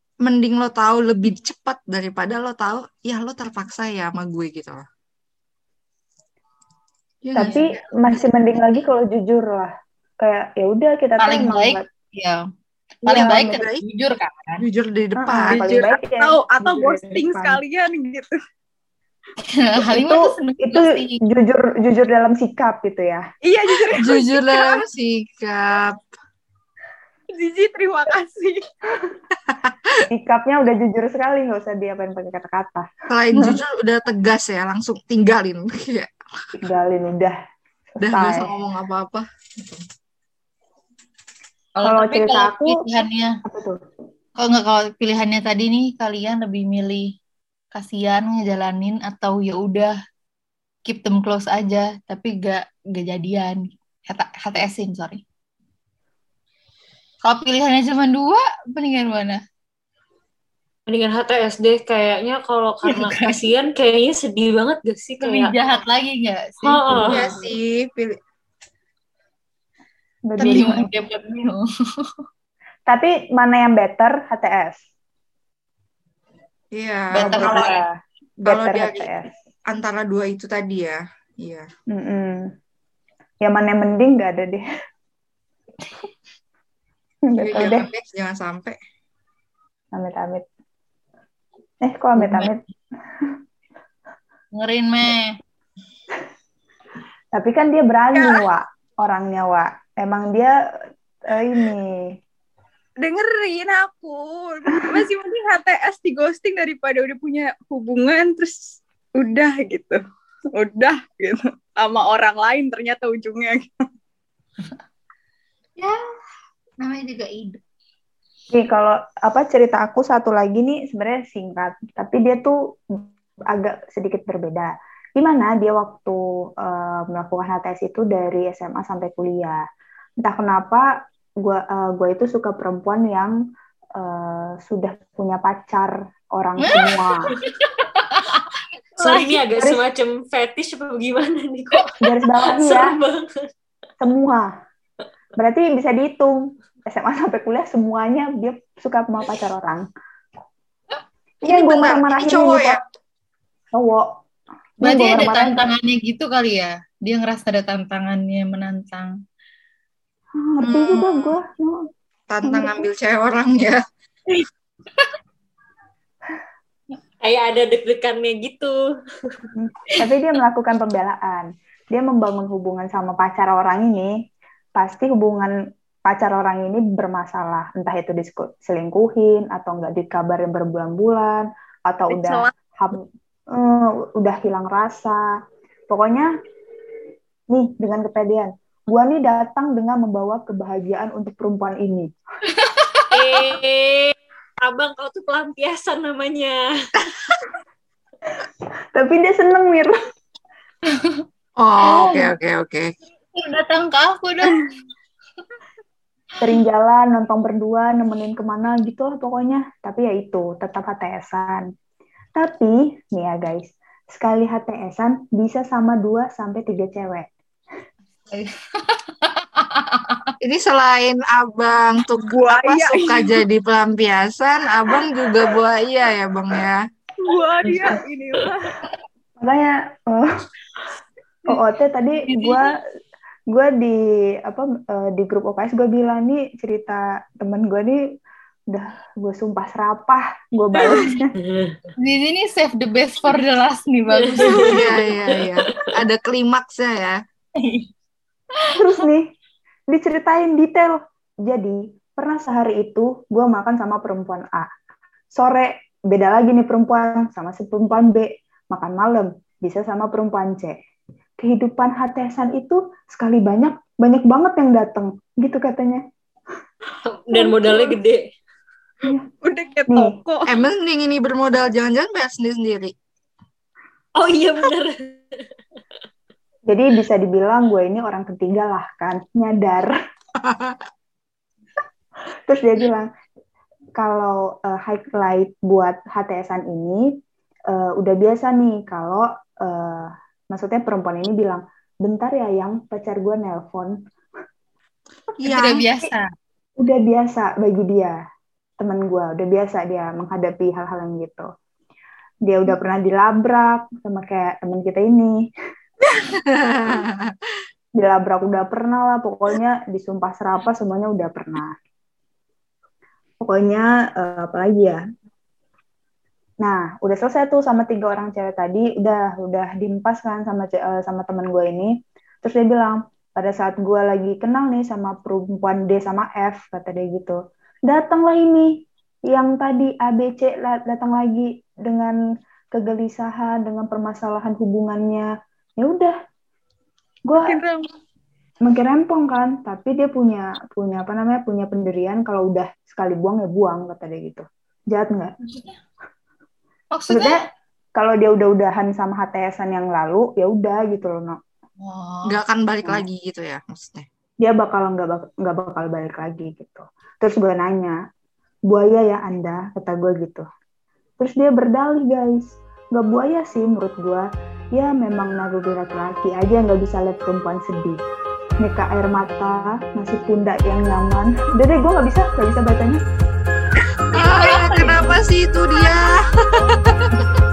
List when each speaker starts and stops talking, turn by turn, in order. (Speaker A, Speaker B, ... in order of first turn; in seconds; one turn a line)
Speaker A: 0.2-4.8
Speaker A: 7.2-7.6
Speaker B: 7.3-11.8
Speaker C: 7.4-7.7
Speaker C: 11.2-12.4
Speaker C: 13.1-14.6
Speaker B: 13.1-13.6
Speaker A: 13.1-13.8
Speaker A: 14.6-15.7
Speaker B: 15.2-17.6
Speaker D: 15.5-18.4
Speaker C: 19.5-21.2
Speaker B: 19.8-23.2
Speaker D: 23.4-24.9
Speaker A: 24.0-25.9
Speaker D: 27.3-28.6
Speaker A: 29.5-29.9
Speaker B: 30.1-33.6
Speaker A: 33.1-36.1
Speaker B: 36.6-37.3
Speaker B: 37.9-38.5
Speaker A: 38.0-39.8
Speaker C: 41.8-43.3
Speaker B: 41.8-42.8
Speaker B: 43.5-43.8
Speaker C: 44.4-47.1
Speaker C: 47.7-49.9
Speaker C: 50.9-55.2
Speaker C: 57.2-59.4
Speaker E: 60.9-65.5
Speaker C: 62.9-63.4
Speaker C: 65.2-67.1
Speaker E: 66.7-67.3
Speaker A: 67.0-68.1
Speaker B: 70.3-70.9
Speaker A: 70.4-70.7
Speaker C: 70.4-71.6
Speaker B: 72.9-74.8
Speaker A: 76.7-77.7
Speaker B: 77.1-77.9
Speaker C: 77.2-77.8
Speaker A: 78.4-79.1
Speaker B: 78.4-79.3
Speaker A: 79.7-81.7
Speaker B: 81.9-82.5
Speaker B: 83.4-84.6
Speaker B: 87.3-87.8
Speaker A: 87.4-88.8
Speaker B: 89.9-90.4
Speaker B: 91.8-92.6
Speaker C: 92.2-92.5
Speaker C: 94.5-95.3
Speaker B: 97.3-100.5
Speaker D: 98.1-98.5
Speaker B: 101.3-101.9
Speaker D: 103.0-110.0
Speaker D: 110.5-113.7
Speaker C: 116.8-117.6
Speaker B: 118.5-129.6
Speaker B: 130.2-130.9
Speaker B: 131.4-133.3
Speaker B: 134.0-137.3
Speaker C: 136.6-137.1
Speaker C: 138.1-138.4
Speaker E: 139.0-143.3
Speaker B: 139.0-139.8
Speaker B: 142.0-143.0
Speaker B: 144.0-144.5
Speaker B: 145.4-149.8
Speaker A: 151.4-152.8
Speaker B: 151.4-152.8
Speaker B: 153.7-154.1
Speaker B: 154.8-155.7
Speaker C: 154.8-159.1
Speaker B: 160.3-161.8
Speaker A: 160.6-161.4
Speaker A: 162.3-163.8
Speaker B: 162.4-162.9
Speaker E: 167.2-168.8
Speaker B: 169.5-174.1
Speaker B: 174.8-175.5
Speaker B: 176.1-185.2
Speaker D: 182.1-182.6
Speaker B: 185.9-186.3
Speaker B: 187.5-192.1
Speaker C: 192.6-193.1
Speaker E: 193.1-196.6
Speaker B: 198.9-200.0
Speaker A: 201.6-202.9
Speaker C: 201.8-202.3
Speaker C: 203.3-204.6
Speaker B: 206.4-211.7
Speaker B: 212.3-217.3
Speaker C: 218.3-220.2
Speaker A: 220.4-226.8
Speaker D: 222.3-223.4
Speaker D: 227.2-228.7
Speaker B: 229.4-230.3
Speaker B: 231.5-232.7
Speaker C: 232.3-232.6
Speaker B: 233.5-238.0
Speaker B: 238.7-241.3
Speaker E: 241.5-241.7
Speaker C: 242.0-244.8
Speaker E: 244.3-244.8
Speaker A: 244.4-247.2
Speaker C: 247.6-247.9
Speaker B: 248.7-249.3
Speaker B: 249.9-254.7
Speaker B: 255.3-260.8
Speaker B: 261.4-266.0
Speaker E: 267.1-268.2
Speaker D: 267.3-268.0
Speaker D: 269.0-270.5
Speaker B: 269.9-270.2
Speaker A: 270.5-272.9
Speaker E: 274.2-275.3
Speaker B: 276.7-279.9
Speaker A: 280.4-280.8
Speaker B: 282.5-283.1
Speaker B: 284.0-287.0
Speaker B: 287.7-293.9
Speaker A: 295.4-295.8
Speaker C: 295.4-296.3
Speaker B: 296.8-298.1
Speaker B: 298.8-301.5
Speaker B: 302.4-305.5
Speaker A: 306.5-307.3
Speaker B: 308.0-311.8
Speaker B: 313.4-315.0
Speaker B: 316.6-328.7
Speaker B: 329.3-332.1
Speaker B: 332.7-336.1
Speaker B: 337.3-337.6
Speaker D: 337.4-337.9
Speaker B: 338.6-345.3
Speaker C: 345.4-345.8
Speaker C: 346.9-347.4
Speaker B: 347.1-347.4
Speaker B: 347.9-351.4
Speaker C: 351.8-352.4
Speaker A: 352.2-354.1
Speaker B: 354.4-357.9
Speaker B: 358.7-360.4
Speaker B: 361.2-368.0
Speaker B: 368.6-373.0
Speaker C: 374.1-375.2
Speaker A: 374.1-376.2
Speaker A: 376.9-377.2